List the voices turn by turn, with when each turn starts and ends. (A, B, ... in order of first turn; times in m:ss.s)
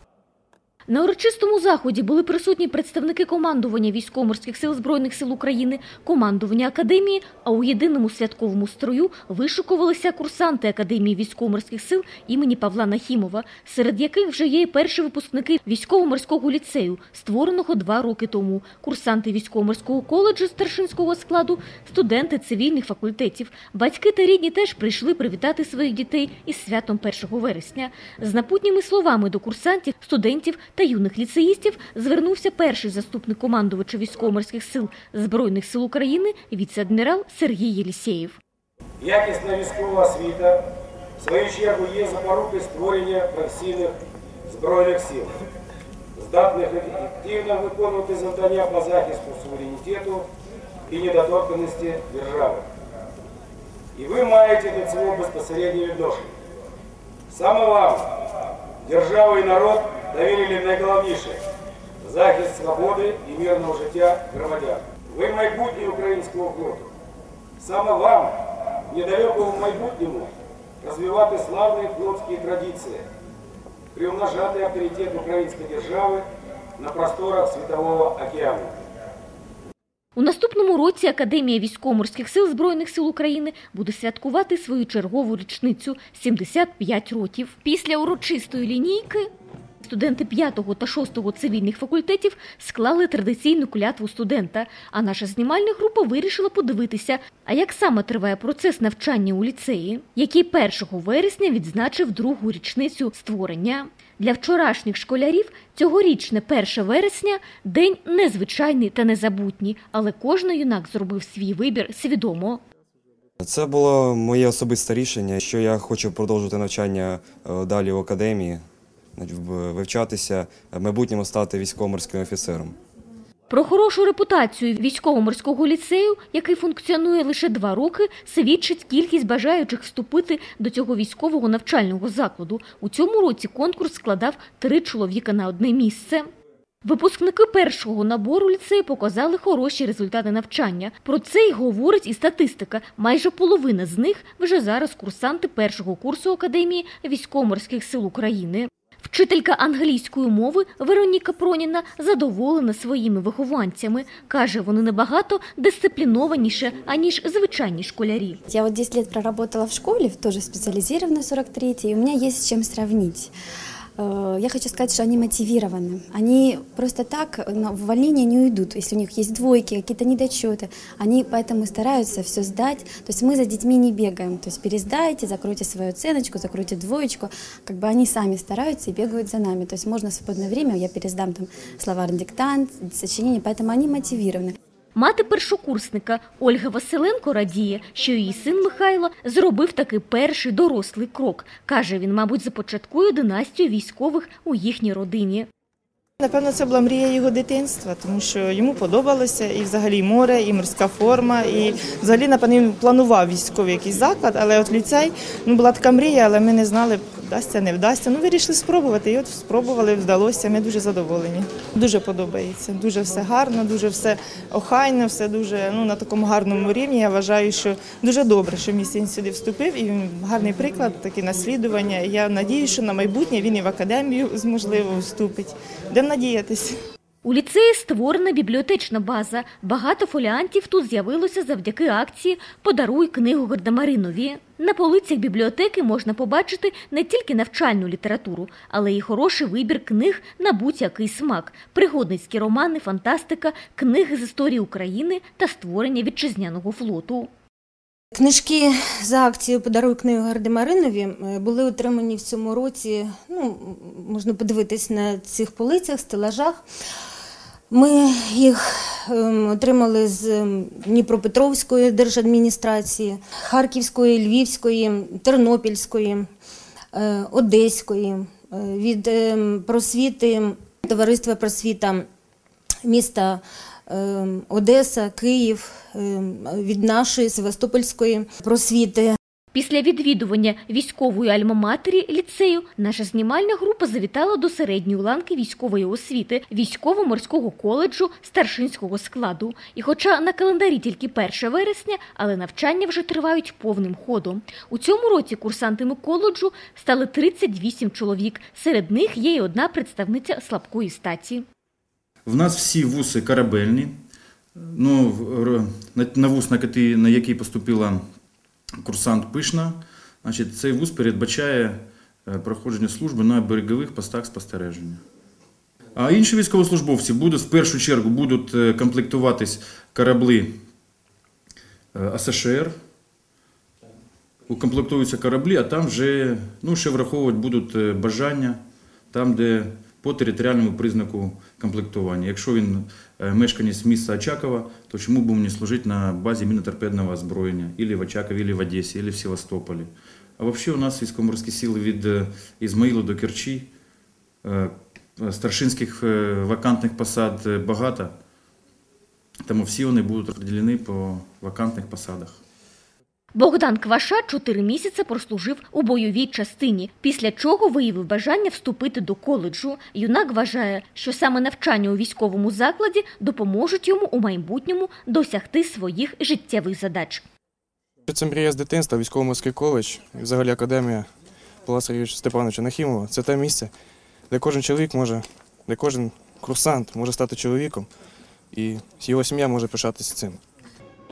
0:00.9-0:38.4 A
0:39.0-0:40.6 B
0:41.2-0:44.0 B
0:44.5-0:45.3 B
0:46.1-0:50.3 B
0:50.9-0:52.6 B
0:53.9-0:56.3 B
0:57.3-0:58.2 B
0:58.8-1:01.4 B
1:02.0-1:06.9 B
1:07.6-1:08.4 B
1:08.9-1:13.0 B
1:13.9-1:16.2 B
1:16.8-1:18.7 B
1:20.2-1:29.2 A
1:29.8-1:52.6 A
1:53.4-1:58.6 C
1:59.2-2:02.8 C
2:03.5-2:16.3 A
2:16.8-2:38.4 A
2:38.5-2:43.3 D
2:44.0-3:04.6 D
3:04.9-3:15.5 A
3:16.2-3:46.7 E
3:47.2-4:07.3 A
4:08.2-4:16.6 F
4:17.7-4:26.3 F
4:26.9-4:32.0 F
4:32.8-4:39.1 F
4:39.5-5:01.4 A
5:02.2-5:03.9 G
5:04.7-5:08.0 G
5:08.8-5:15.0 G
5:16.0-5:20.6 G
5:21.9-5:22.7 G
5:24.5-5:28.6 G
5:29.1-5:43.7 G
5:44.4-5:48.1 G
5:49.4-5:52.4 G
5:53.3-6:07.2 A
6:08.1-6:11.1 H
6:11.6-6:13.7 H
6:14.3-6:17.9 H
6:18.5-6:20.4 H